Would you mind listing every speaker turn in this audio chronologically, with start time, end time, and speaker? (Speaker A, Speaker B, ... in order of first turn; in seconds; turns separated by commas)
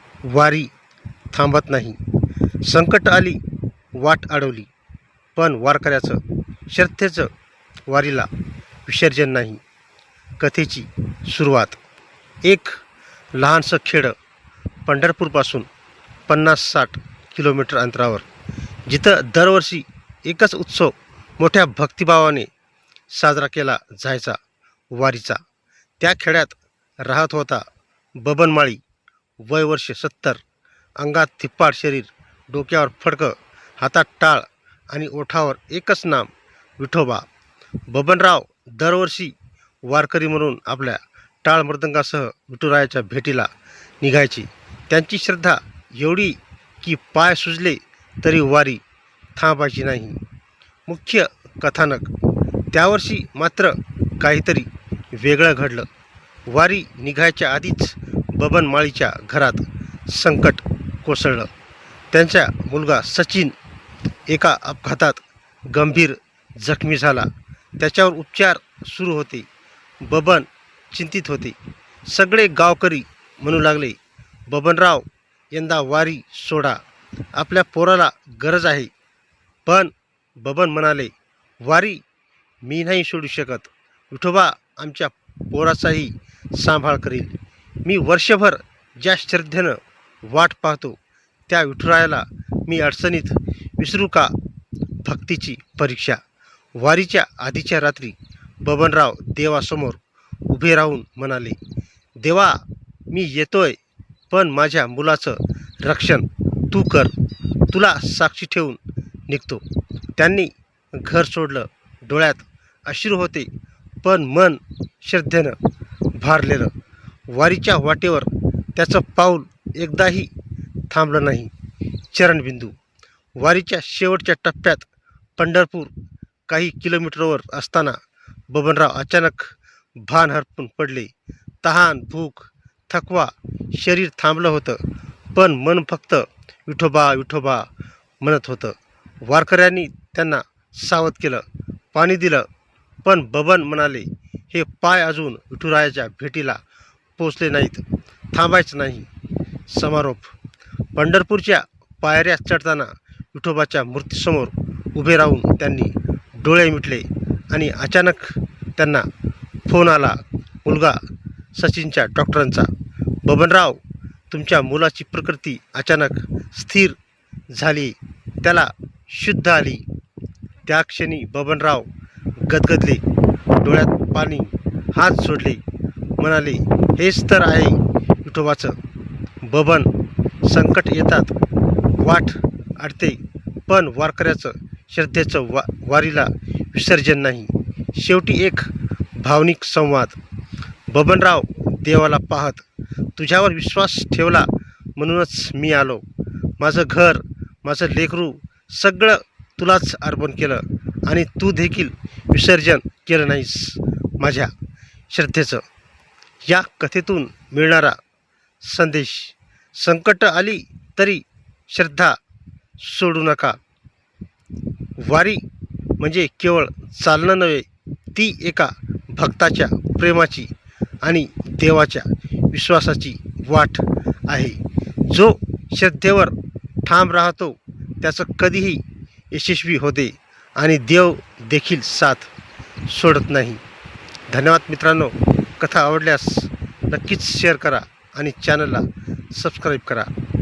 Speaker A: 0.2-0.7, Speaker A: 1.3-2.0, Speaker A: 2.6-3.4, Speaker A: 3.9-4.7, Speaker A: 5.3-7.3, Speaker A: 7.9-8.3, Speaker A: 8.8-9.6, Speaker A: 10.4-11.8, Speaker A: 12.4-12.8, Speaker A: 13.3-14.2, Speaker A: 14.8-15.7, Speaker A: 16.3-18.2, Speaker A: 18.9-22.5, Speaker A: 23.1-24.4, Speaker A: 24.9-25.4, Speaker A: 26.0-27.6, Speaker A: 28.2-28.8, Speaker A: 29.4-30.4, Speaker A: 31.0-37.2, Speaker A: 37.9-43.5, Speaker A: 44.0-48.8, Speaker A: 49.4-50.2, Speaker A: 50.9-52.1, Speaker A: 52.7-55.9, Speaker A: 56.5-61.5, Speaker A: 62.1-63.5, Speaker A: 64.3-69.5, Speaker A: 70.0-71.5, Speaker A: 72.1-76.8, Speaker A: 77.3-78.9, Speaker A: 79.7-82.0, Speaker A: 82.6-94.3, Speaker A: 95.0-96.2, Speaker A: 96.8-101.6, Speaker A: 102.2-103.8, Speaker A: 104.3-107.1, Speaker A: 107.7-109.6, Speaker A: 110.2-113.5, Speaker A: 114.0-115.6, Speaker A: 116.2-116.7, Speaker A: 117.3-120.3, Speaker A: 120.9-121.5, Speaker A: 122.1-122.8, Speaker A: 123.3-125.9, Speaker A: 126.5-128.0, Speaker A: 128.5-131.1, Speaker A: 131.6-134.8, Speaker A: 135.3-137.7, Speaker A: 138.2-142.5, Speaker A: 143.0-146.6, Speaker A: 147.2-149.1, Speaker A: 149.7-150.3, Speaker A: 150.9-159.1, Speaker A: 159.7-161.0, Speaker A: 161.5-162.7, Speaker A: 163.2-167.0, Speaker A: 167.5-169.8, Speaker A: 170.7-171.9, Speaker A: 172.4-173.0, Speaker A: 173.6-175.6, Speaker A: 176.2-178.8, Speaker A: 179.4-179.9, Speaker A: 180.4-181.3, Speaker A: 182.0-190.2, Speaker A: 190.9-192.6, Speaker A: 193.2-196.0, Speaker A: 196.6-204.5, Speaker A: 205.1-205.6, Speaker A: 206.5-208.0, Speaker A: 208.6-212.2, Speaker A: 212.8-213.6, Speaker A: 215.0-215.4, Speaker A: 216.0-220.5, Speaker A: 221.0-232.3, Speaker A: 232.9-233.6, Speaker A: 234.3-240.1